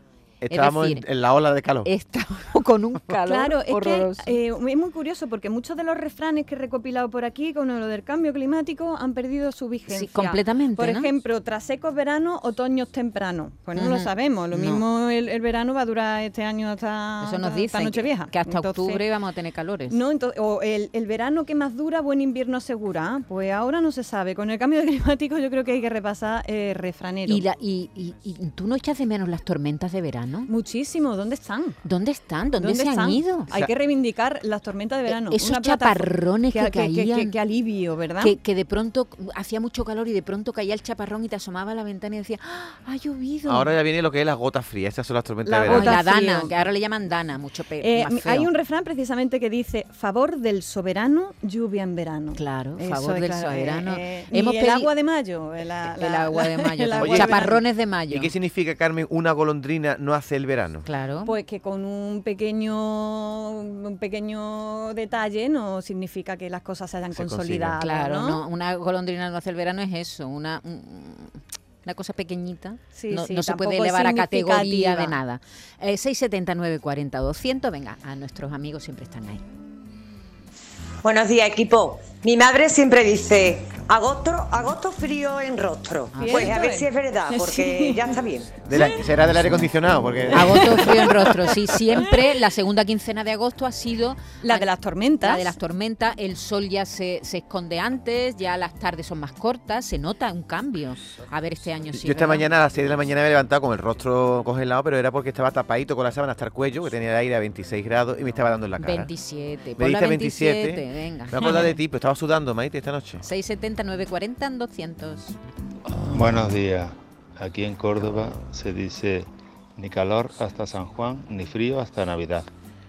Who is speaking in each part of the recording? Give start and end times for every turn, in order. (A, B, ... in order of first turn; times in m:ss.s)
0:00.4-0:01.9 A
0:00.5-0:01.1 B
0:01.8-0:04.4 B
0:03.2-0:19.0 C
0:09.9-0:11.1 B
0:13.8-0:14.8 B
0:17.2-0:20.0 B
0:19.9-0:27.5 C
0:27.3-0:30.5 B
0:30.5-0:31.8 C
0:31.8-0:33.5 B
0:32.6-0:38.4 C
0:35.1-0:37.3 B
0:38.2-0:43.7 B
0:43.5-0:45.9 A
0:45.5-0:46.7 C
0:45.7-0:48.5 B
0:47.8-0:57.6 C
0:52.4-0:54.9 B
0:55.9-0:58.3 B
0:57.0-0:57.4 A
0:58.1-1:00.9 A
1:00.8-1:01.3 B
1:01.2-1:08.4 C
1:07.2-1:07.8 A
1:07.8-1:19.4 B
1:12.9-1:15.2 C
1:21.0-1:28.5 D
1:26.1-1:26.5 B
1:26.2-1:29.1 C
1:28.6-1:30.9 A
1:30.3-1:34.7 B
1:30.4-1:31.5 C
1:34.4-1:35.6 C
1:35.2-1:42.5 B
1:41.9-1:49.1 A
1:48.8-1:51.7 B
1:49.8-1:53.2 A
1:53.2-1:55.4 B
1:56.1-2:02.5 E